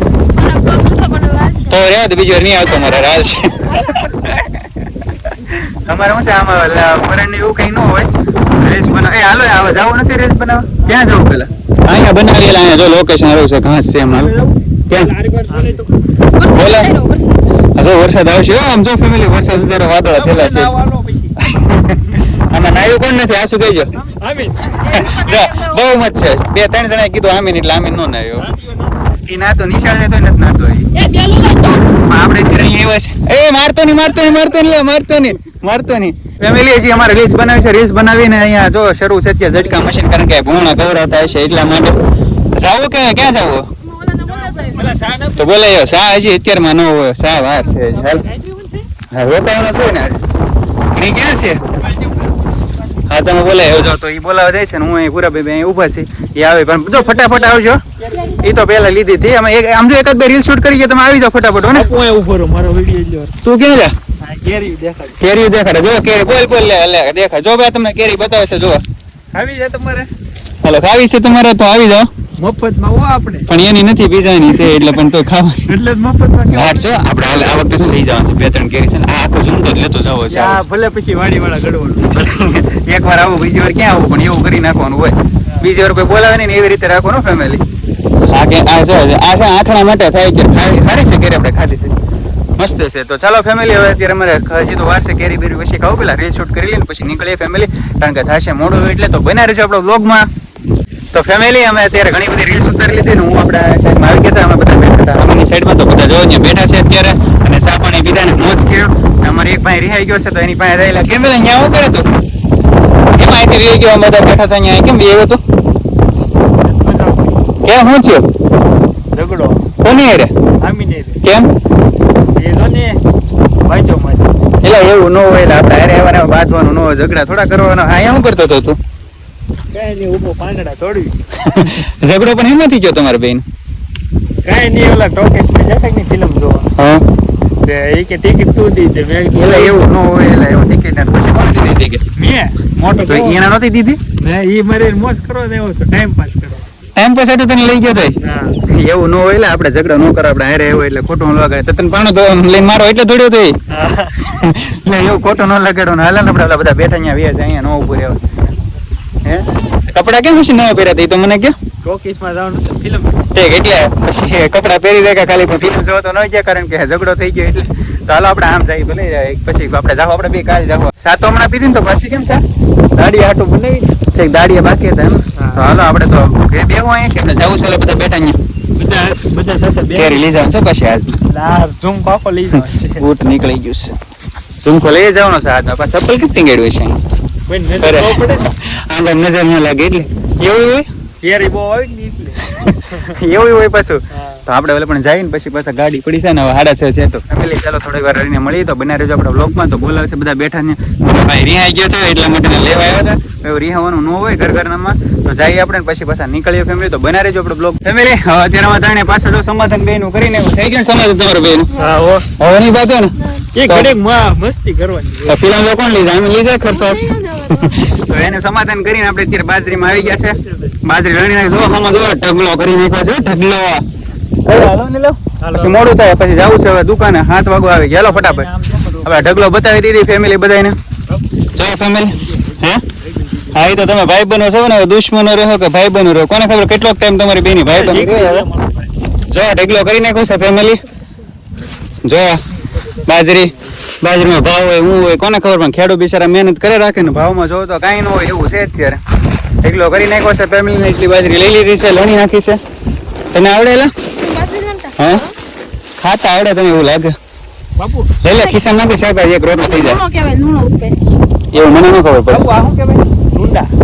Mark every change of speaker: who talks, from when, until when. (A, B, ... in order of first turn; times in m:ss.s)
0:00.3-0:01.7 A
0:01.7-0:04.6 B
0:05.4-0:14.4 B
0:14.1-0:16.0 C
0:16.3-0:17.4 A
0:16.4-0:17.0 B
0:17.8-0:20.7 B
0:20.1-0:21.4 C
0:21.4-0:23.9 B
0:24.0-0:25.0 C
0:24.8-0:28.5 B
0:24.8-0:25.8 A
0:28.4-0:29.2 C
0:29.2-0:31.0 B
0:31.0-0:31.9 A
0:31.8-0:43.7 B
0:43.8-0:44.9 A
0:44.2-0:45.5 C
0:45.4-0:48.3 B
0:47.9-0:48.9 C
0:49.1-0:50.2 B
0:50.9-0:51.6 B
0:51.9-0:52.3 C
0:53.1-0:57.8 B
0:57.0-0:58.5 C
0:58.4-1:01.9 B
1:01.7-1:03.3 C
1:03.4-1:04.0 B
1:04.2-1:05.2 C
1:05.2-1:08.8 B
1:09.3-1:10.1 C
1:10.6-1:12.1 B
1:12.4-1:13.5 C
1:13.5-1:15.7 B
1:15.7-1:16.9 C
1:16.5-1:20.6 B
1:20.3-1:22.2 C
1:22.1-1:27.6 B
1:28.3-1:32.0 B
1:32.6-1:40.3 B
1:41.1-1:52.1 B
1:53.2-1:55.4 B
1:56.6-1:57.4 C
1:57.6-1:58.3 B
1:59.1-1:59.7 C
1:59.8-2:00.3 B
2:00.6-2:01.2 C
2:01.2-2:01.5 B
2:02.4-2:03.0 C
2:03.6-2:04.3 C
2:04.6-2:08.8 B
2:09.7-2:11.2 C
2:11.4-2:13.4 B
2:14.4-2:16.7 C
2:16.8-2:17.0 B
2:17.6-2:19.8 C
2:19.4-2:22.0 B
2:22.2-2:23.4 C
2:23.0-2:24.0 B
2:24.2-2:26.7 C
2:27.0-2:28.2 B
2:28.0-2:28.6 C
2:28.7-2:33.6 B
2:33.7-2:34.3 C
2:34.2-2:38.2 B
2:39.2-2:41.6 B
2:41.8-2:43.3 C
2:43.4-2:52.4 B
2:53.0-2:58.4 B
2:55.4-2:55.6 C
2:58.8-3:00.3 C
2:59.9-3:01.2 B
3:01.3-3:03.1 C
3:02.5-3:04.0 B
3:04.6-3:07.0 B
3:07.5-3:08.5 C
3:07.8-3:10.9 B
3:11.2-3:13.2 C
3:12.4-3:31.8 B
3:14.1-3:14.4 C
3:31.8-3:32.3 C
3:32.4-3:34.0 B
3:33.5-3:35.4 C
3:35.3-3:43.8 B
3:36.7-3:37.9 A
3:39.7-3:40.8 C
3:44.4-3:48.5 B
3:45.4-3:46.0 C
3:48.0-3:49.4 C
3:49.0-3:50.8 B
3:51.6-3:52.8 B
3:52.2-3:53.8 C
3:53.5-3:58.5 B
3:57.7-3:58.9 C
3:59.3-4:00.8 B
4:02.0-4:02.4 B
4:03.1-4:09.0 B
4:09.6-4:12.6 B
4:13.3-4:13.9 B
4:14.2-4:15.1 A
4:15.0-4:15.3 B
4:16.0-4:17.1 B
4:17.8-4:18.1 C
4:18.2-4:20.0 B
4:19.7-4:21.0 A
4:21.5-4:22.4 B
4:22.3-4:23.7 C